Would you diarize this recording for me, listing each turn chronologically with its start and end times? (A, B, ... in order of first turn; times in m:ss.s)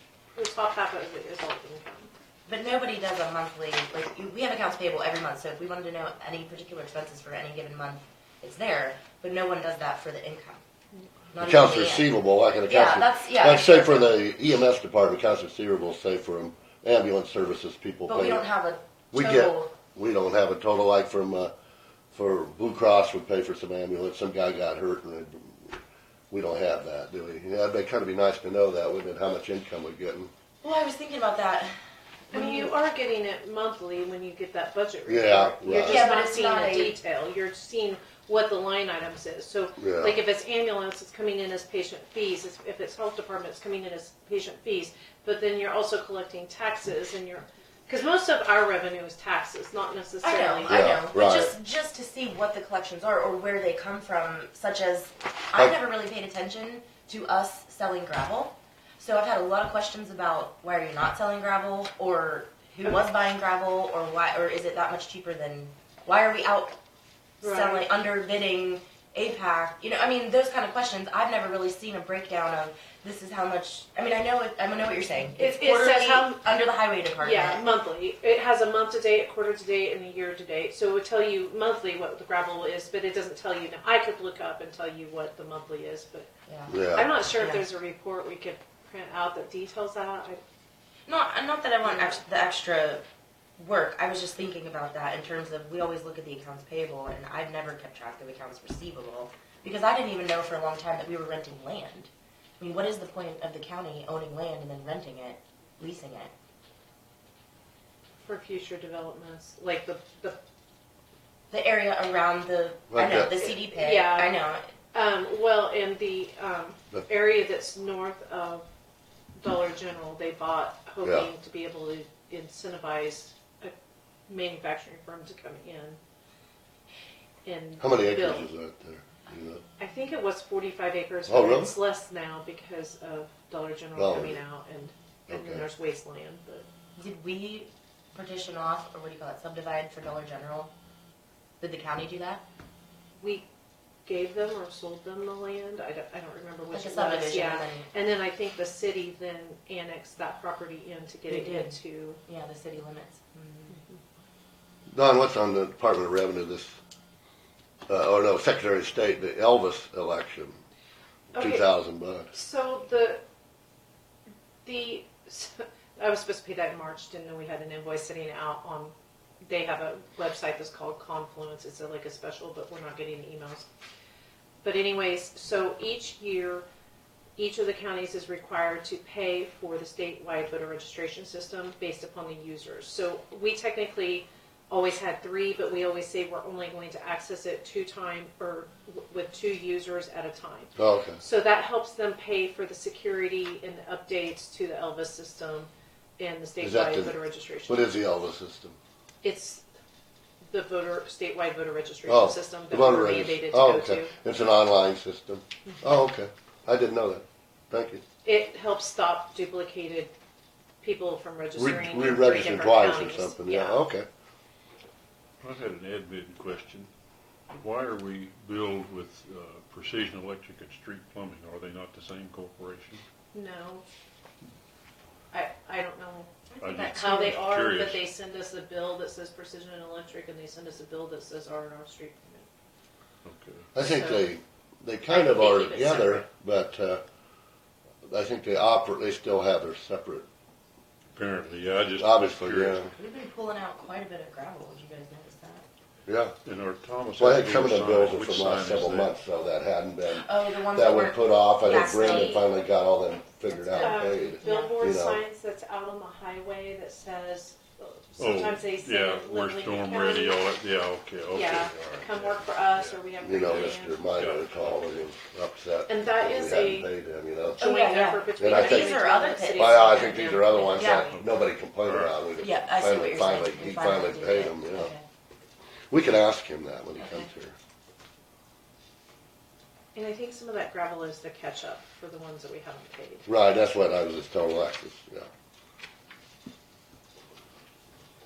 0:00.4-0:02.1 A
0:02.5-0:10.6 B
0:11.3-0:12.1 B
0:11.4-0:18.5 C
0:12.7-0:14.2 B
0:18.1-0:19.7 B
0:19.1-0:21.5 C
0:22.1-0:25.8 C
0:26.3-0:30.3 C
0:30.6-0:31.7 B
0:32.3-0:32.7 B
0:32.3-0:50.7 A
0:35.1-0:36.1 C
0:35.7-0:37.0 B
0:39.8-0:40.2 C
0:50.2-1:06.8 B
0:50.7-0:51.5 C
1:07.4-1:07.8 A
1:07.4-1:17.6 B
1:15.4-1:16.4 A
1:17.2-1:26.3 A
1:26.5-1:27.6 B
1:26.7-1:27.1 C
1:26.9-1:30.4 A
1:31.1-1:33.0 B
1:31.8-1:32.2 A
1:33.6-1:46.3 B
1:48.2-1:50.4 A
1:51.5-1:54.7 B
1:52.9-1:53.4 C
1:53.4-1:58.7 A
1:59.4-2:03.7 A
2:01.0-2:01.3 C
2:04.3-2:06.0 A
2:07.4-2:08.5 A
2:07.8-2:09.6 C
2:09.8-2:16.7 A
2:11.3-2:11.8 C
2:14.0-2:14.4 C
2:15.3-2:15.6 C
2:17.0-2:20.7 B
2:21.6-2:22.4 B
2:23.2-2:23.5 A
2:24.1-2:32.2 A
2:26.7-2:27.8 B
2:31.3-2:33.8 B
2:33.7-2:34.0 A
2:34.9-2:36.8 C
2:37.9-2:40.6 C
2:41.3-2:41.7 A
2:41.3-2:42.3 C
2:42.3-2:43.2 A
2:44.6-2:53.7 A
2:54.6-2:56.7 A
2:57.4-3:17.9 A
3:10.8-3:11.2 C
3:16.6-3:18.8 C
3:19.2-3:19.6 A
3:20.5-3:24.1 A
3:22.1-3:28.0 C
3:28.2-3:30.1 A
3:30.8-3:33.8 A
3:31.6-3:34.1 C
3:35.4-3:36.9 D
3:37.5-3:43.0 D
3:43.3-3:43.8 A
3:45.3-3:46.3 A
3:46.5-3:47.3 B
3:46.6-3:48.0 D
3:46.9-3:52.5 A
3:53.2-3:53.7 D
3:53.8-3:57.0 C
3:53.8-3:54.3 A
3:55.1-3:56.3 A
3:58.1-4:00.3 C
4:01.1-4:02.8 D
4:02.0-4:02.9 C
4:02.9-4:05.6 B
4:06.1-4:06.3 C
4:06.4-4:09.2 D
4:07.2-4:15.2 C
4:10.1-4:12.4 B
4:11.8-4:12.4 A
4:13.4-4:14.8 B
4:13.8-4:20.4 A
4:18.2-4:25.1 D
4:21.3-4:24.0 A
4:23.2-4:27.7 C
4:25.9-4:26.9 A
4:27.6-4:30.9 A
4:27.6-4:31.2 B
4:28.3-4:29.0 C
4:29.5-4:34.9 C
4:30.8-4:32.2 D
4:32.4-4:35.0 B
4:35.9-4:37.6 C
4:40.0-4:43.3 A
4:43.3-4:45.3 C